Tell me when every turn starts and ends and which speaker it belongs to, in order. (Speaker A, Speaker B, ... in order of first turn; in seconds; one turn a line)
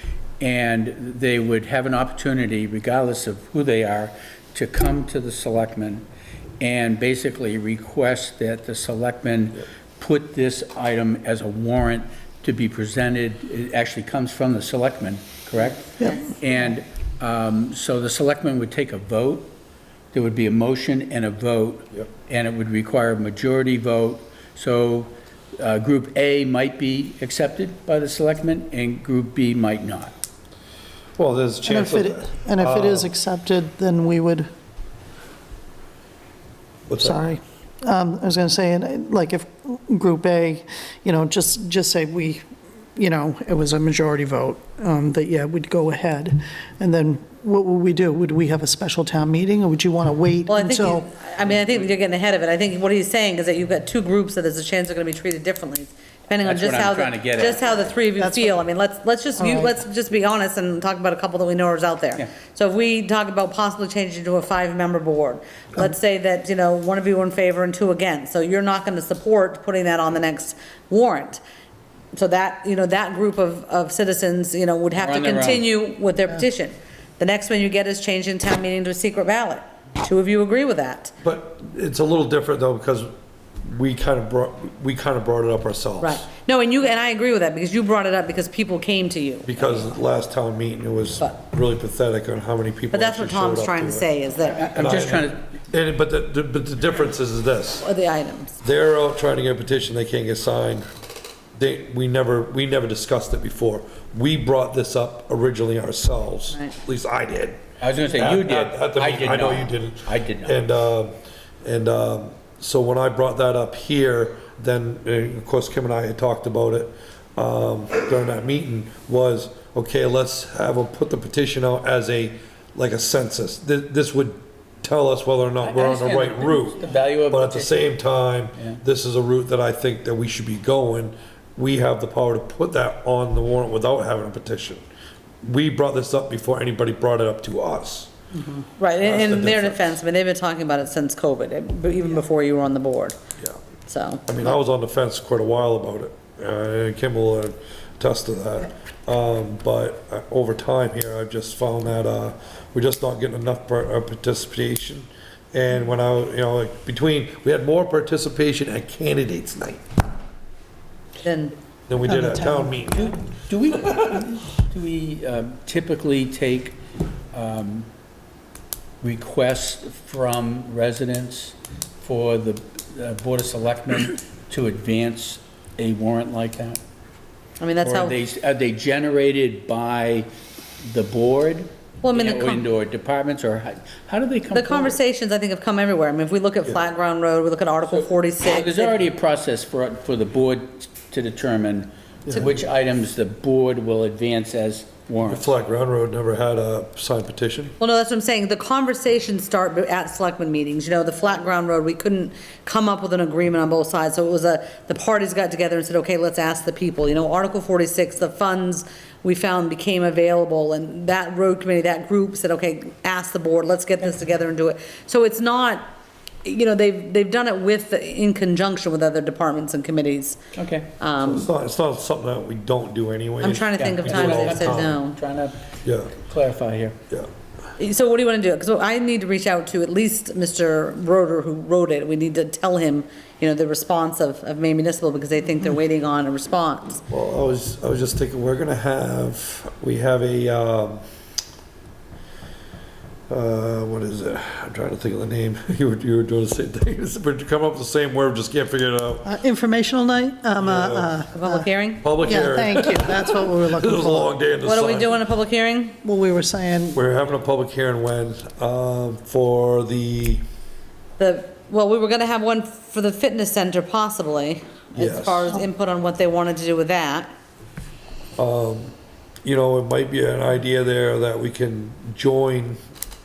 Speaker A: 0.4-6.0
Speaker A: 6.6-19.5
Speaker A: 20.1-30.1
Speaker B: 31.2-33.1
Speaker C: 31.6-34.5
Speaker B: 36.9-37.2
Speaker C: 37.0-42.4
Speaker C: 43.0-51.0
Speaker D: 50.5-71.4
Speaker A: 56.4-57.6
Speaker C: 58.2-58.6
Speaker C: 59.4-59.7
Speaker D: 72.1-81.1
Speaker A: 74.9-75.7
Speaker B: 81.2-83.1
Speaker B: 83.6-86.2
Speaker D: 86.0-89.8
Speaker B: 89.4-94.1
Speaker D: 92.9-94.8
Speaker A: 94.4-95.4
Speaker B: 94.8-97.9
Speaker D: 97.8-98.6
Speaker B: 98.6-100.8
Speaker B: 101.6-107.6
Speaker A: 107.8-110.6
Speaker B: 108.1-111.1
Speaker B: 111.6-134.8
Speaker A: 125.6-127.8
Speaker B: 135.4-138.1
Speaker C: 138.3-138.6
Speaker D: 138.8-143.2
Speaker B: 139.0-139.8
Speaker D: 143.9-144.4
Speaker B: 144.2-159.8
Speaker D: 161.2-161.5
Speaker B: 161.9-163.2
Speaker C: 162.0-162.8
Speaker A: 162.9-166.8
Speaker A: 167.3-167.9
Speaker A: 169.0-176.8
Speaker D: 177.6-178.2
Speaker A: 177.8-180.3
Speaker A: 180.8-184.9
Speaker D: 182.0-182.6
Speaker D: 184.5-189.0
Speaker A: 187.9-195.5
Speaker B: 192.2-192.5
Speaker B: 195.2-197.7
Speaker D: 197.8-215.9
Speaker D: 216.4-220.4
Speaker A: 220.5-220.9
Speaker D: 221.0-221.5
Speaker B: 221.2-225.0
Speaker D: 223.4-225.2
Speaker A: 223.8-226.9
Speaker B: 225.8-226.1
Speaker D: 227.8-237.0
Speaker B: 237.1-241.0
Speaker B: 243.3-249.3
Speaker C: 249.2-251.7
Speaker B: 250.6-251.2
Speaker D: 251.3-252.0
Speaker B: 252.0-255.2
Speaker C: 252.2-254.3
Speaker D: 254.6-256.0
Speaker C: 256.0-257.0
Speaker B: 256.9-260.4
Speaker D: 261.2-267.3
Speaker B: 264.9-265.6
Speaker B: 268.4-268.9
Speaker B: 269.4-272.8